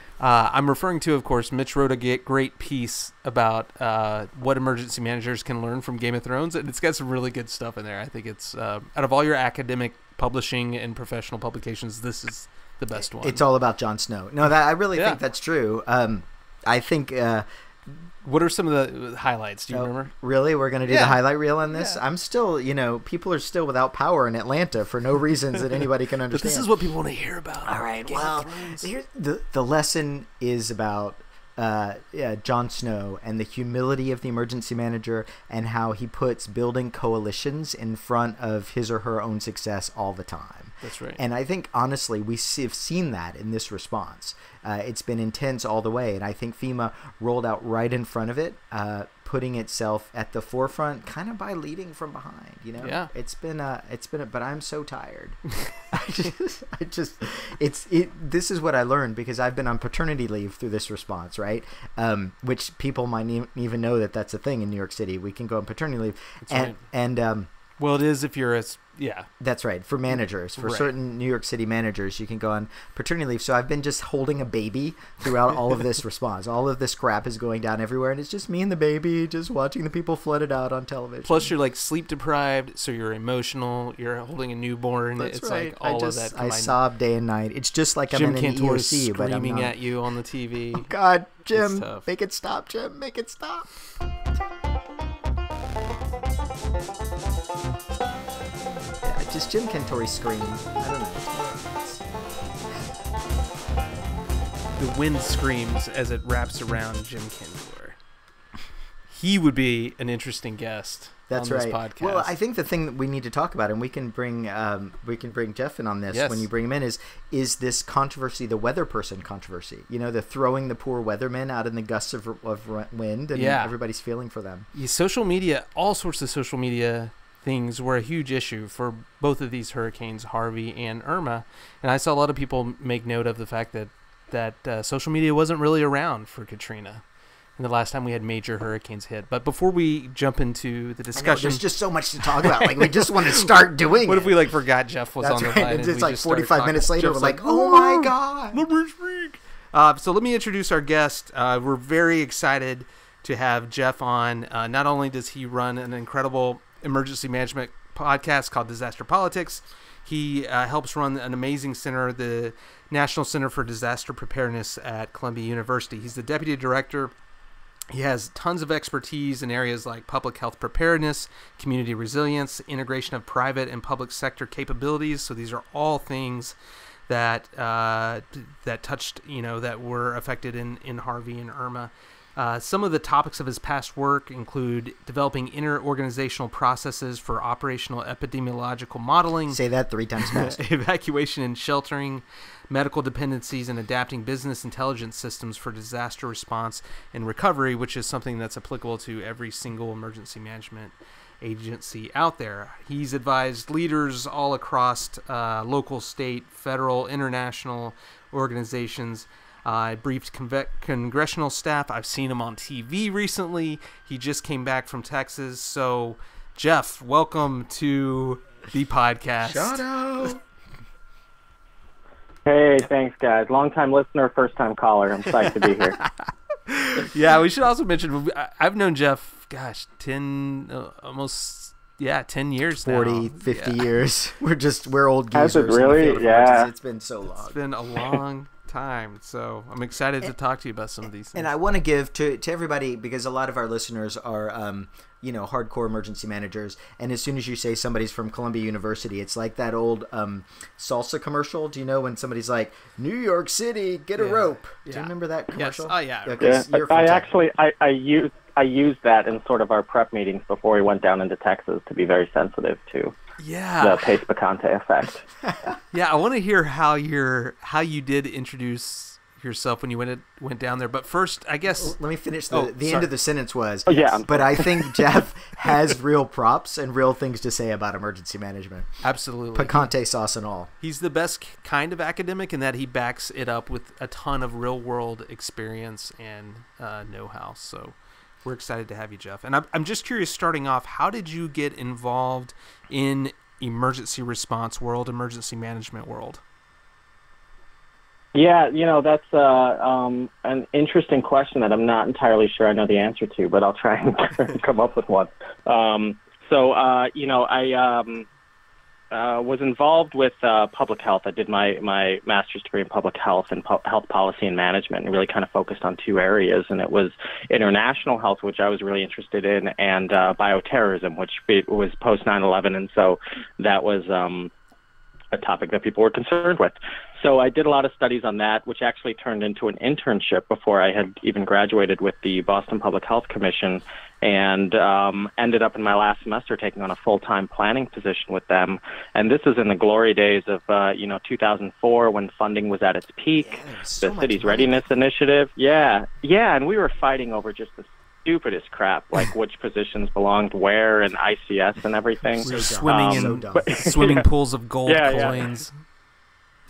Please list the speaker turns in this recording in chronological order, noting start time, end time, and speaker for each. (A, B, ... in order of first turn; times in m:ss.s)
0:00.2-0:13.4 A
0:13.1-0:17.5 B
0:14.9-0:15.2 A
0:18.2-0:20.1 A
0:19.7-0:26.7 B
0:20.9-0:22.0 A
0:26.3-0:28.9 A
0:27.6-1:07.5 B
0:40.8-0:41.2 A
0:52.8-0:53.1 A
1:06.5-1:06.8 A
1:07.8-1:09.3 A
1:09.4-1:21.5 B
1:10.6-1:10.9 A
1:21.2-1:26.8 A
1:25.2-1:29.7 B
1:28.1-1:30.9 A
1:30.7-1:33.7 B
1:31.5-1:32.1 A
1:39.0-1:42.4 B
1:44.8-1:48.0 A
1:49.1-1:52.3 A
1:51.3-2:04.7 B
1:56.1-1:56.5 A
2:03.3-2:03.7 A
2:04.7-2:17.0 A
2:17.6-2:21.6 A
2:21.2-2:24.5 B
2:22.2-2:47.1 A
2:25.2-2:28.6 B
2:47.9-2:56.6 A
2:57.1-3:09.6 A
3:09.5-3:10.6 B
3:10.2-3:39.8 A
3:39.4-3:40.4 B
3:42.5-3:46.0 C
3:47.0-3:53.8 A
3:52.8-3:57.6 B
3:55.3-3:56.7 C
3:57.4-4:01.5 A
4:01.4-4:17.3 B
4:14.2-4:16.6 A
4:16.4-4:23.2 C
4:23.4-4:24.2 A
4:23.8-4:25.2 C
4:25.9-4:32.0 A
4:31.8-4:39.0 B
4:32.5-4:33.1 A
4:33.9-4:35.0 C
4:39.0-4:39.9 A
4:39.5-4:40.7 B
4:40.8-4:56.4 A
4:58.4-5:08.3 C
5:09.1-5:24.5 C
5:25.3-5:54.2 C
5:43.4-5:44.8 B
5:52.4-5:53.8 B
5:52.4-5:55.8 A
5:54.9-5:55.4 C